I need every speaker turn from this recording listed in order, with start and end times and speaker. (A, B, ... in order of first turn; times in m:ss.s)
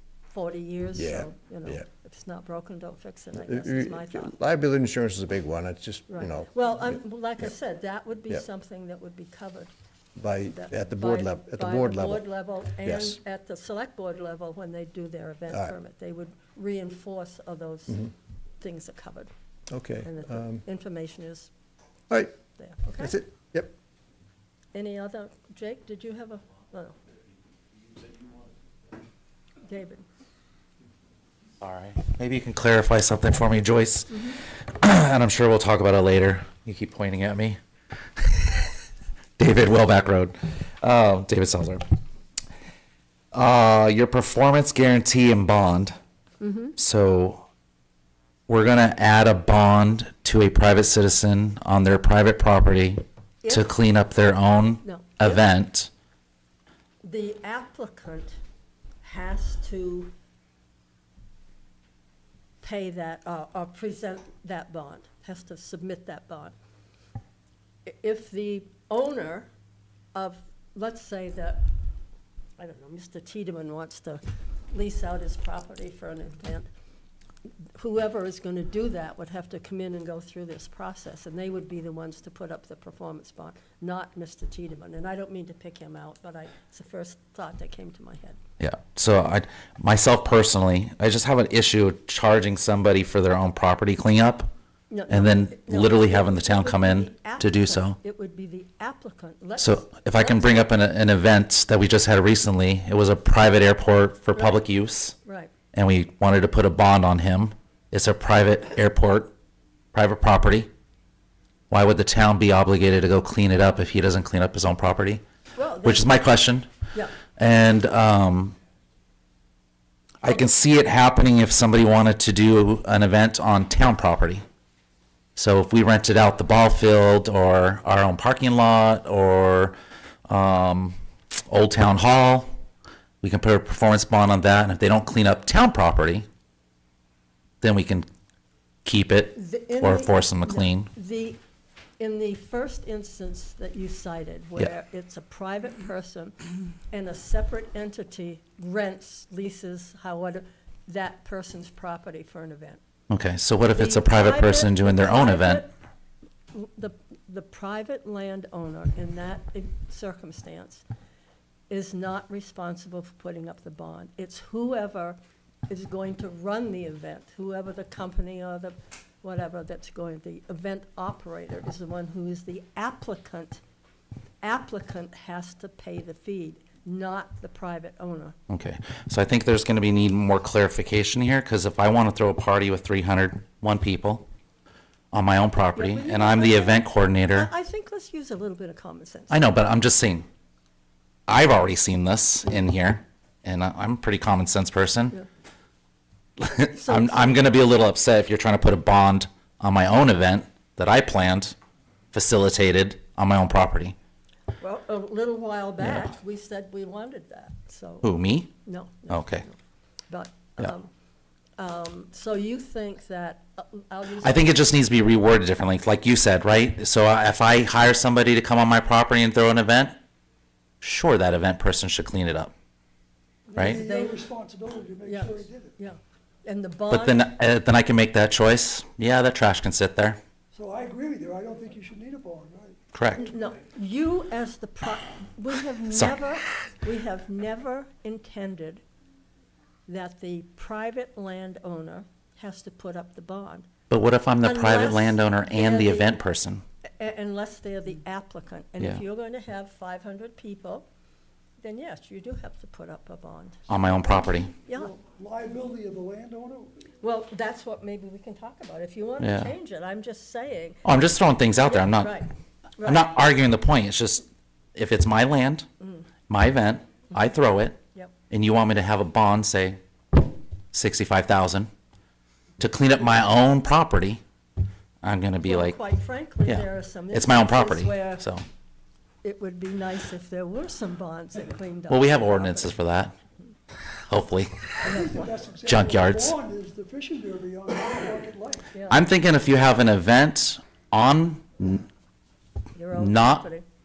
0:00.3-0:04.4 A
0:01.0-0:01.8 B
0:03.4-0:06.5 B
0:06.1-0:09.7 A
0:10.2-0:12.3 B
0:10.5-0:19.3 A
0:12.8-0:13.2 B
0:19.7-0:20.6 B
0:20.0-0:21.5 A
0:22.6-0:23.2 A
0:23.0-0:23.7 B
0:24.7-0:27.0 A
0:29.6-0:30.0 A
0:31.6-0:37.6 C
0:38.2-0:38.6 C
0:39.4-0:41.8 C
0:43.3-0:46.0 C
0:46.4-0:46.8 A
0:46.8-0:47.4 C
0:48.5-0:55.9 C
0:53.4-0:53.7 A
0:54.8-0:55.4 A
0:57.0-0:58.4 A
0:59.0-1:00.1 A
1:02.6-1:06.5 A
1:07.9-1:09.5 A
1:10.2-1:11.7 A
1:12.6-1:16.7 A
1:17.8-1:28.4 A
1:28.6-1:34.5 C
1:34.9-1:40.7 A
1:35.1-1:38.0 C
1:39.6-1:45.2 C
1:44.4-1:44.6 A
1:45.2-1:45.5 A
1:45.7-1:49.3 C
1:49.9-1:50.7 C
1:51.7-1:55.2 C
1:55.6-1:56.3 A
1:55.8-1:56.7 C
1:57.4-1:58.6 C
2:00.2-2:04.4 C
2:05.4-2:09.8 C
2:10.3-2:11.0 C
2:11.5-2:12.5 C
2:13.2-2:16.3 C
2:17.6-2:18.1 C
2:18.8-2:20.9 C
2:19.4-2:21.4 A
2:22.0-2:26.4 A
2:26.9-2:32.8 A
2:33.1-2:35.6 C
2:33.7-2:35.7 A
2:36.5-2:40.8 A
2:41.7-2:45.2 A
2:45.7-2:53.6 A
2:54.4-2:58.4 A
2:58.5-3:04.2 C
3:05.1-3:07.5 C
3:05.8-3:09.5 A
3:09.3-3:10.3 C
3:11.3-3:15.2 C
3:16.4-3:21.6 C
3:16.8-3:17.5 A
3:22.1-3:24.0 C
3:24.6-3:28.1 A
3:25.8-3:26.1 C
3:28.0-3:28.5 C
3:28.6-3:29.6 A
3:29.1-3:29.4 C
3:30.1-3:30.9 A
3:31.6-3:34.7 A
3:34.2-3:40.0 C
3:40.8-3:42.5 C
3:43.5-3:45.7 D
3:43.6-3:44.2 A
3:45.1-3:47.3 A
3:46.9-3:50.2 C
3:50.5-3:53.3 D
3:52.9-3:53.3 C
3:53.2-3:58.8 A
3:55.9-3:56.2 C
3:59.9-4:03.7 A
4:03.9-4:06.6 C
4:04.4-4:06.2 A
4:07.0-4:10.9 A
4:11.6-4:13.6 A
4:13.7-4:14.5 C
4:14.6-4:14.9 A
4:14.7-4:16.8 D
4:17.0-4:20.8 A
4:19.2-4:19.5 C
4:20.8-4:22.2 C
4:21.6-4:23.1 A
4:22.8-4:25.7 C
4:25.8-4:26.1 A
4:26.3-4:27.8 C
4:28.3-4:29.8 C
4:30.7-4:31.7 C
4:32.6-4:34.2 C
4:35.0-4:35.8 C
4:35.4-4:38.2 A
4:36.4-4:38.4 C
4:39.2-4:42.8 A
4:41.9-4:43.1 C
4:44.1-4:44.8 C
4:44.8-4:48.7 D
4:44.8-4:45.3 A
4:45.6-4:46.4 C
4:48.9-4:51.9 C
4:52.8-4:53.6 A
4:52.9-4:53.4 C